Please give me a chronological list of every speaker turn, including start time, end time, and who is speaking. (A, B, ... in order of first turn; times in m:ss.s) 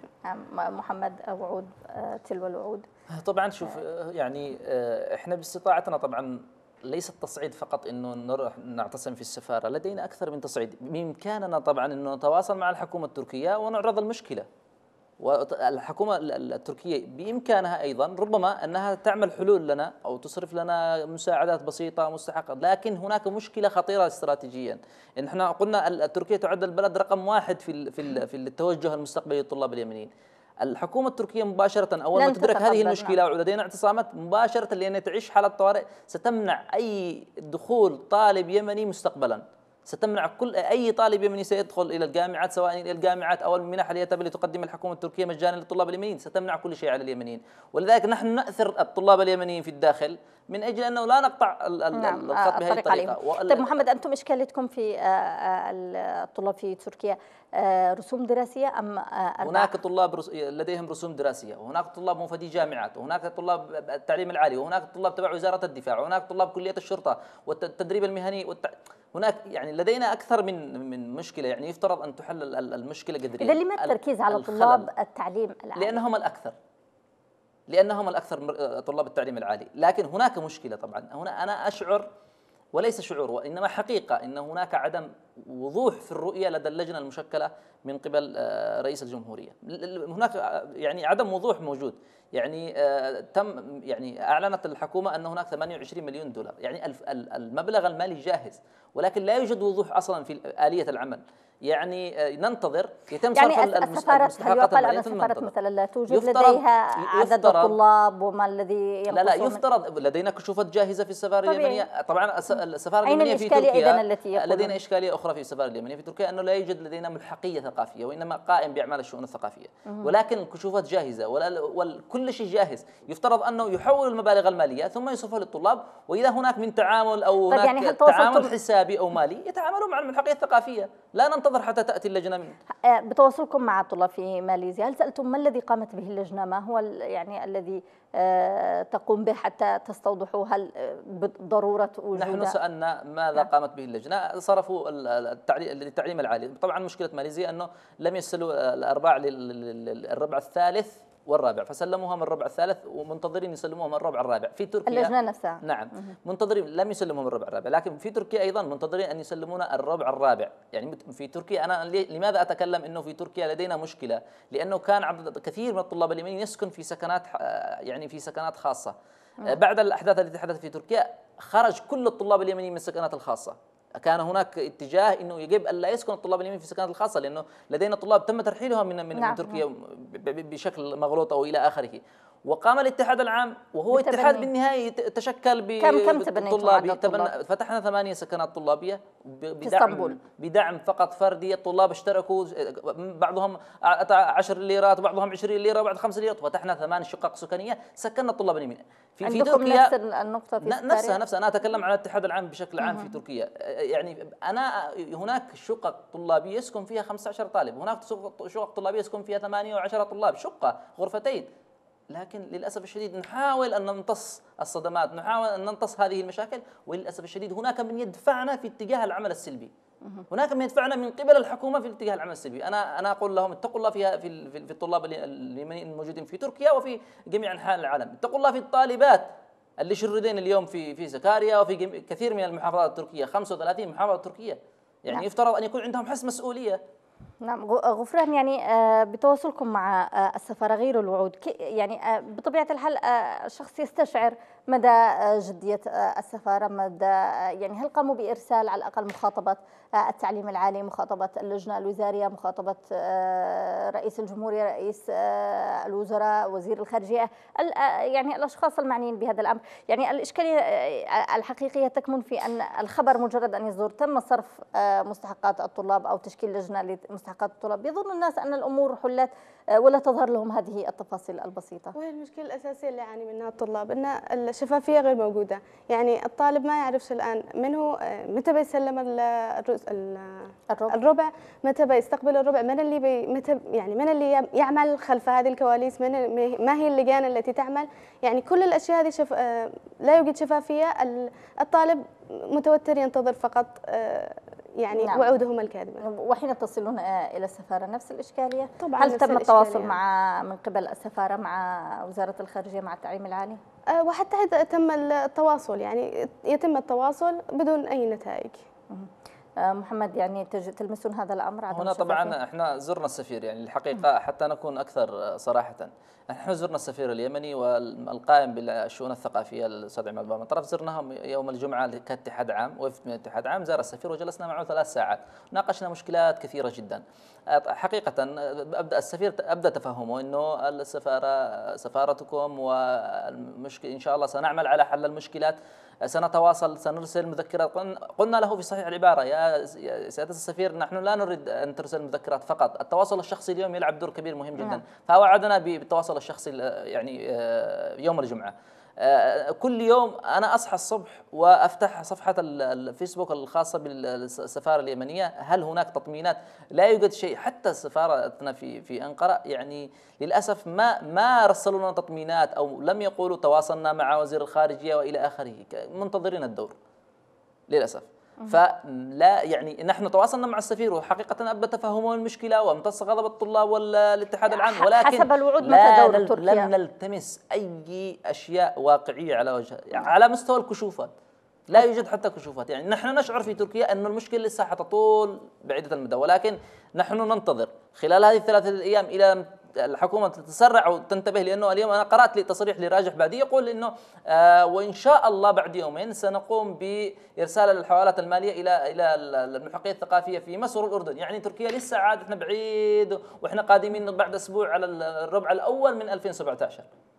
0:00.2-0:02.9 A
0:03.1-0:14.5 B
0:15.2-0:30.1 B
0:30.6-0:53.8 B
0:32.2-0:33.2 A
0:52.0-0:59.7 A
0:59.4-1:14.9 B
1:13.4-1:16.0 A
1:15.8-1:16.5 B
1:17.7-1:22.1 B
1:22.7-1:45.5 B
1:43.3-1:49.6 A
1:46.1-1:47.7 B
1:49.1-2:12.6 B
1:51.4-1:51.8 A
1:53.0-1:54.8 A
2:07.5-2:08.5 A
2:12.8-2:22.6 A
2:22.2-2:48.9 B
2:34.9-2:36.1 A
2:49.4-3:19.9 B
2:59.2-2:59.6 A
3:03.9-3:04.5 A
3:05.8-3:07.3 A
3:09.6-3:10.2 A
3:19.2-3:21.2 A
3:20.6-3:31.5 B
3:22.8-3:23.1 A
3:32.1-3:39.7 B
3:40.3-3:49.3 B
3:49.8-3:56.8 B
3:57.4-4:31.9 A
4:31.9-4:56.0 C
4:40.7-4:41.0 A
4:55.0-4:55.3 A
4:56.0-5:03.6 A
4:58.8-5:00.0 C
5:03.9-5:08.6 C
5:08.9-5:12.3 A
5:11.7-6:06.7 B
6:07.7-6:21.1 B
6:14.5-6:16.7 A
6:21.7-6:46.9 B